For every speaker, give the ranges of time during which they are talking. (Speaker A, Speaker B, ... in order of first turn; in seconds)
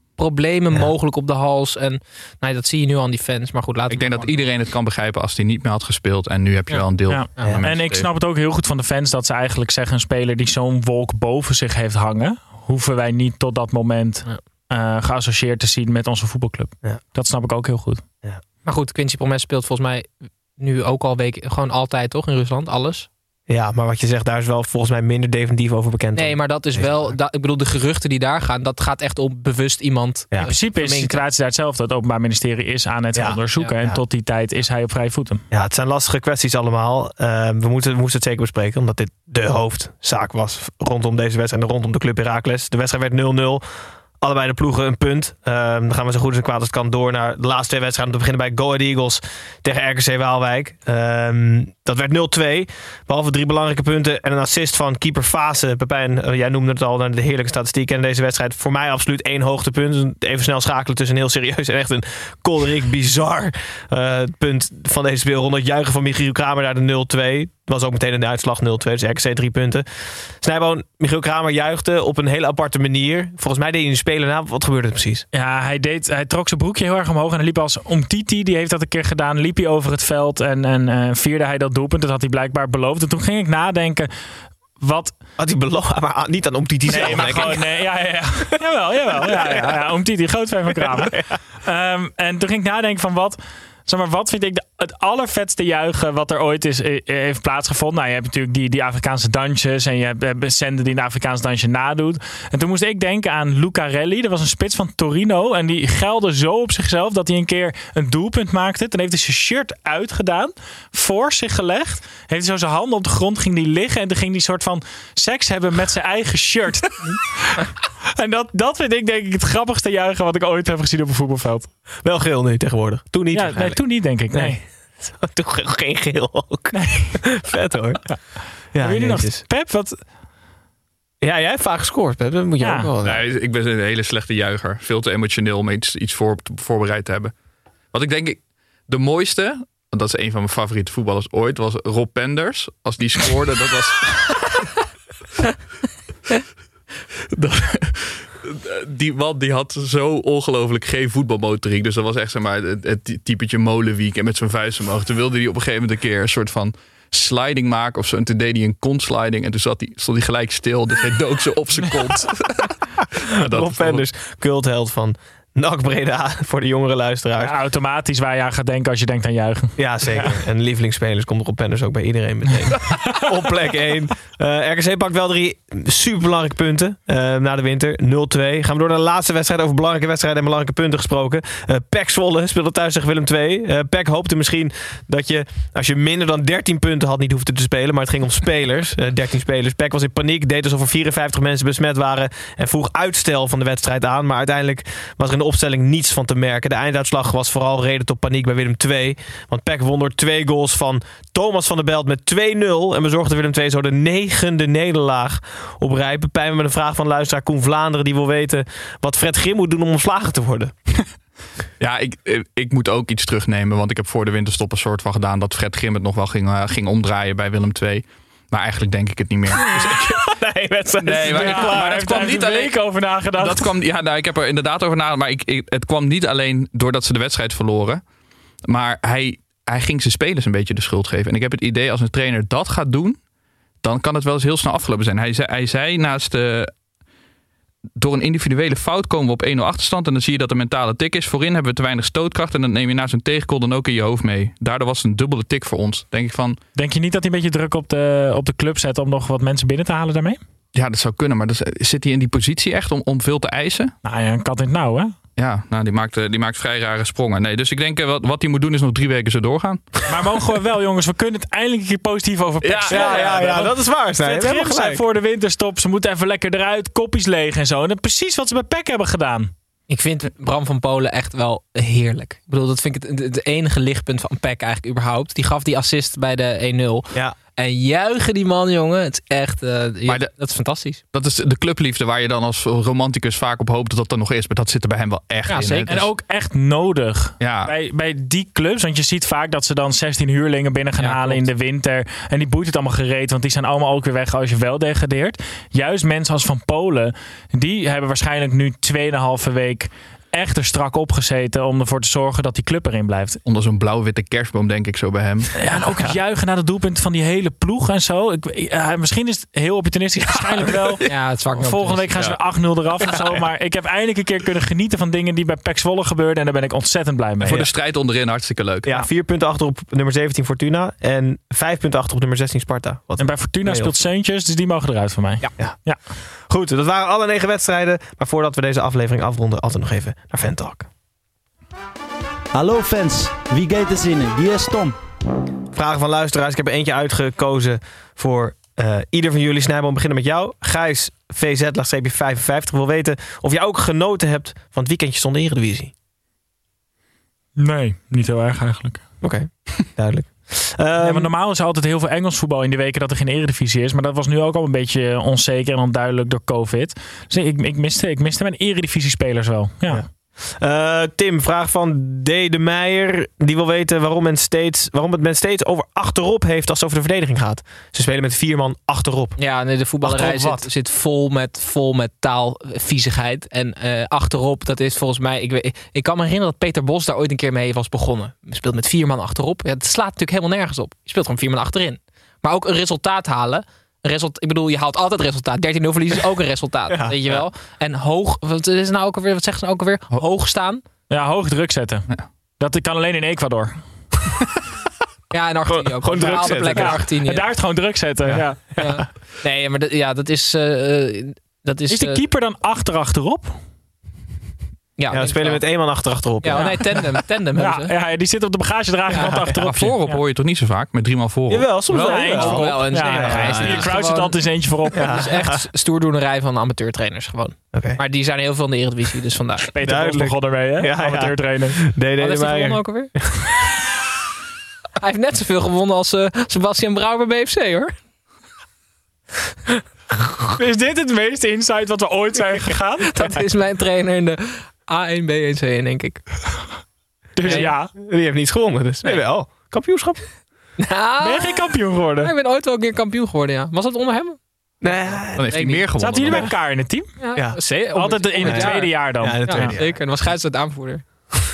Speaker A: 0.2-4.3, 18.6-23.1, 26.1-31.2, 269.9-281.0, 285.4-285.9, 311.1-312.1, 369.4-390.8, 395.3-397.5, 398.8-402.2, 405.0-405.7, 406.4-407.9, 411.9-419.7, 422.2-423.1, 425.0-427.9, 433.0-436.2, 437.4-437.7, 440.8-446.4, 447.2-451.0
Speaker B: 3.9-8.1, 133.0-137.3, 137.9-144.6, 147.3-164.0, 211.8-220.1, 221.0-228.0, 228.6-233.2, 233.8-236.7, 238.0-246.6, 250.7-253.9, 255.3-260.0, 262.6-263.5, 280.1-280.3, 281.1-286.1, 287.4-287.7, 291.0-291.5, 303.4-305.5, 312.1-312.4, 317.4-318.9, 409.6-411.7, 445.3-446.5
Speaker C: 7.1-18.0, 30.4-35.4, 75.3-84.1, 84.8-85.1, 86.8-117.0, 118.2-121.7, 123.3-124.6, 126.7-127.1, 128.8-130.0, 132.6-132.9, 167.4-170.4, 221.1-223.7, 246.8-250.4, 254.0-255.1, 260.1-269.5, 285.9-303.4, 305.6-317.7, 323.2-326.0, 347.6-349.1, 351.0-360.0, 391.1-392.1, 392.6-393.8, 396.1-398.9, 401.9-403.6, 406.5-410.2, 411.9-415.2, 419.7-421.8, 430.5-433.4, 437.4-437.9, 441.2-442.3, 446.0-447.1, 447.8-449.7
Speaker D: 23.5-27.1, 33.1-34.0, 35.5-43.6, 44.2-69.8, 70.4-75.2, 85.4-88.2, 89.1-89.7, 90.7-91.3, 122.0-128.0, 128.7-129.4, 131.2-133.2, 163.4-167.5, 169.8-210.7, 219.5-222.3, 262.9-265.0, 318.8-323.9, 326.5-330.9, 335.7-345.9, 349.2-351.3, 359.9-369.4, 370.0-370.7, 386.9-387.3, 395.7-397.0, 398.2-399.0, 405.1-406.8, 409.2-409.6, 411.5-413.9, 414.9-415.6, 417.7-418.0, 419.8-423.4, 437.5-440.2, 444.8-445.6, 447.3-447.6, 448.4-450.0
Speaker E: 332.5-334.9